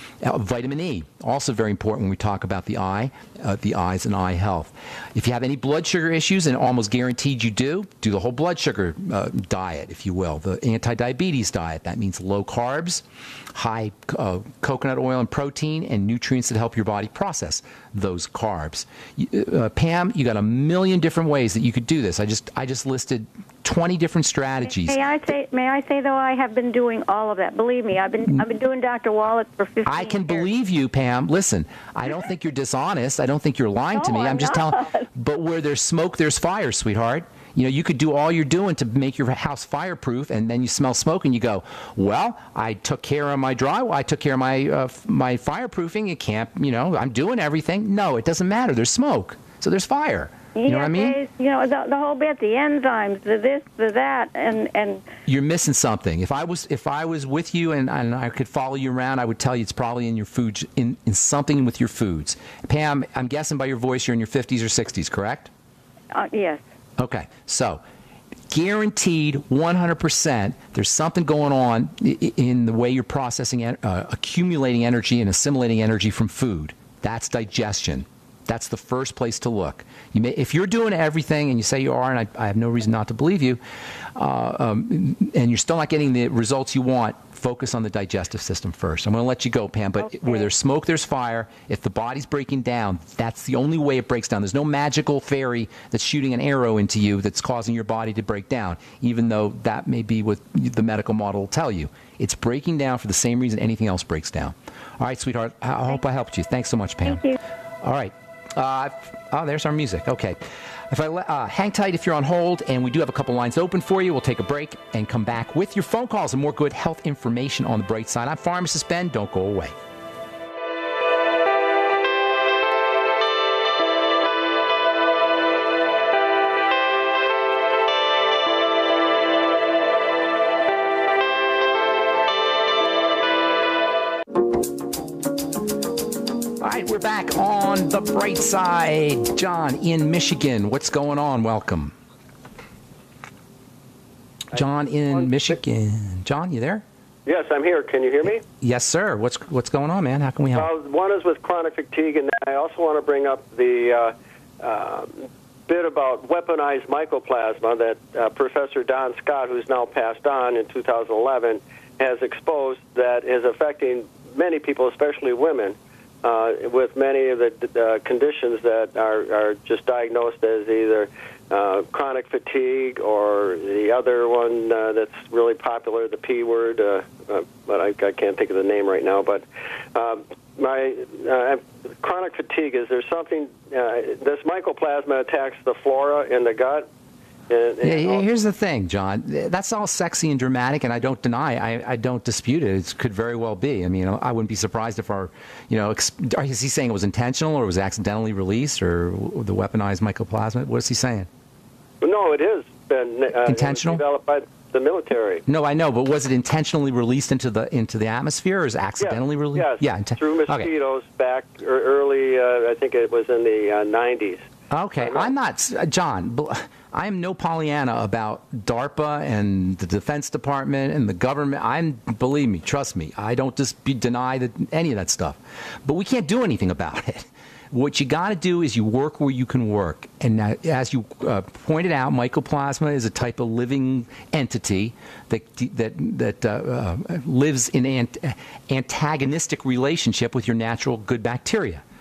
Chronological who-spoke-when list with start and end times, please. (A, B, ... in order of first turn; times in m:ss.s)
0:00.2-0:25.0 A
0:24.7-0:30.5 B
0:29.8-0:51.2 A
0:33.9-0:35.0 B
0:50.5-0:55.1 B
0:55.2-1:05.5 A
1:06.1-1:06.6 B
1:07.0-1:07.8 A
1:08.5-1:23.6 A
1:24.2-1:59.7 A
2:16.6-2:21.9 A
2:24.5-2:26.8 A
2:27.2-2:28.4 C
2:28.6-2:30.7 A
2:30.5-3:06.8 C
3:07.5-3:08.3 C
3:07.8-3:21.3 A
3:22.0-3:25.4 C
3:23.4-3:24.0 A
3:25.5-3:30.7 A
3:29.0-3:34.5 C
3:34.7-4:01.8 A
3:35.0-3:35.3 C